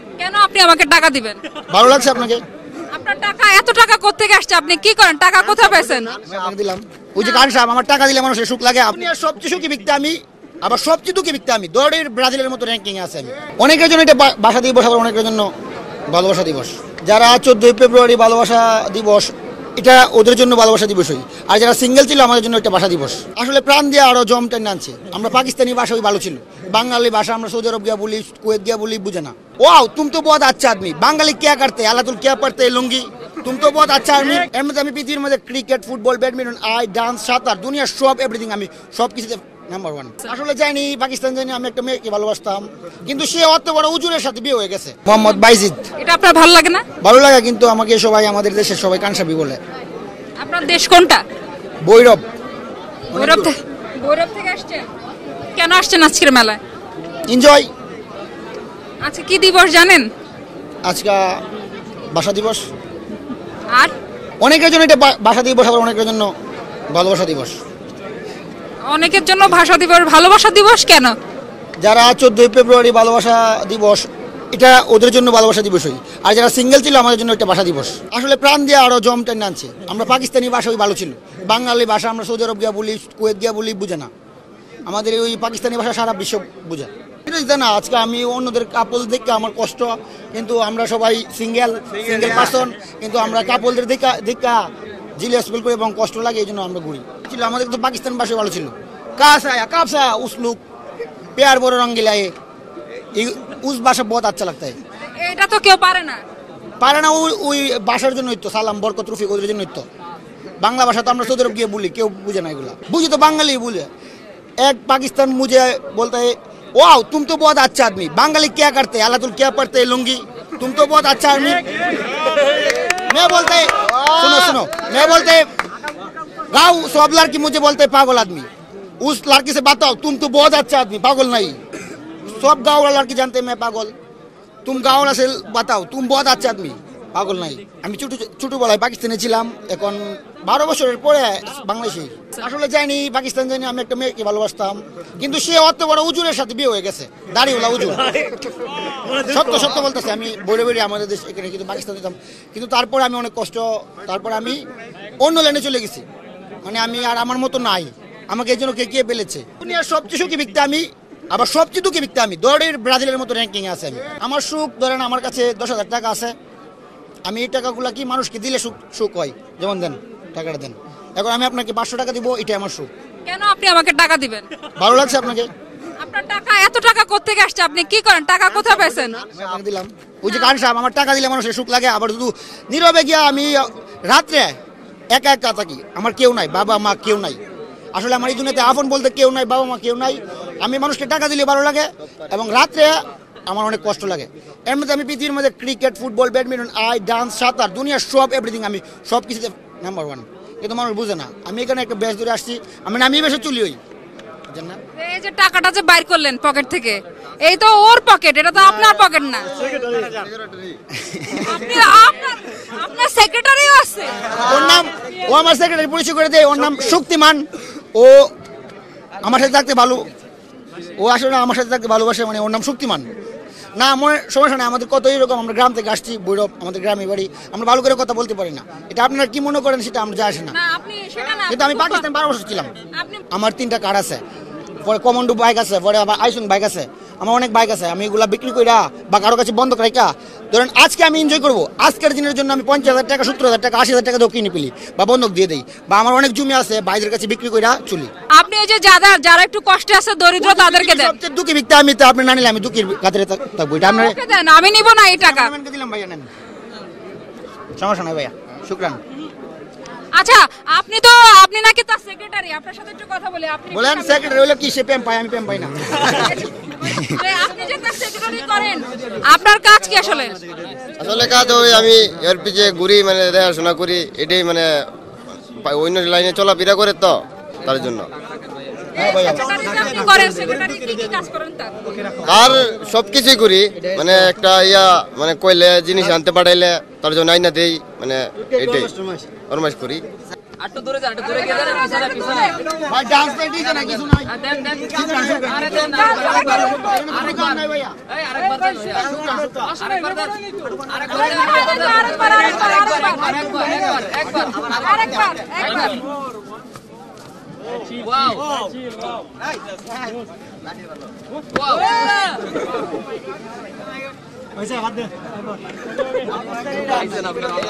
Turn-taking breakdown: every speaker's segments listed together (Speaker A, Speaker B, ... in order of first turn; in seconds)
Speaker A: 0.2-1.4, 2.9-6.2, 7.2-7.5, 46.0-46.8, 50.4-51.2, 53.1-54.9, 55.5-56.6, 59.0-60.1, 68.9-71.1, 105.2-106.2, 173.2-174.5, 176.0-179.2, 180.3-180.5, 205.0-209.5, 211.4-214.7, 230.5-232.0, 232.9-233.2, 248.3-251.1, 253.8-255.5, 260.1-264.4, 267.1-270.4, 278.9-281.7, 291.2-292.6, 295.8-296.9, 301.0-306.0
Speaker B: 1.7-2.4, 6.2-15.5, 16.1-45.9, 47.0-49.6, 51.8-52.2, 53.1-53.5, 57.3-57.7, 60.8-61.4, 62.1-62.6, 64.4-66.3, 66.9-67.5, 71.8-84.1, 84.9-94.6, 95.2-100.6, 101.3-102.3, 103.2-104.8, 106.8-109.8, 110.6-113.9, 114.6-121.7, 123.1-125.5, 126.5-128.5, 129.0-131.6, 132.2-133.9, 134.7-148.2, 149.1-154.6, 155.2-156.0, 156.6-166.3, 167.2-172.9, 174.8-175.5, 179.3-184.5, 185.1-187.4, 187.9-203.8, 204.5-204.8, 210.9-211.6, 214.4-218.3, 219.2-220.1, 221.0-223.1, 223.8-230.6, 231.5-232.7, 233.3-234.2, 234.8-248.1, 250.4-254.2, 255.2-256.3, 257.8-259.0, 263.7-267.2, 278.9-279.6, 292.8-297.9
Speaker C: 210.0-210.5, 271.0-274.7, 275.6-278.1, 282.2-290.0
Speaker D: 290.6-291.3, 294.5-294.9, 298.2-300.3, 303.6-304.7, 308.1-308.4, 317.2-317.5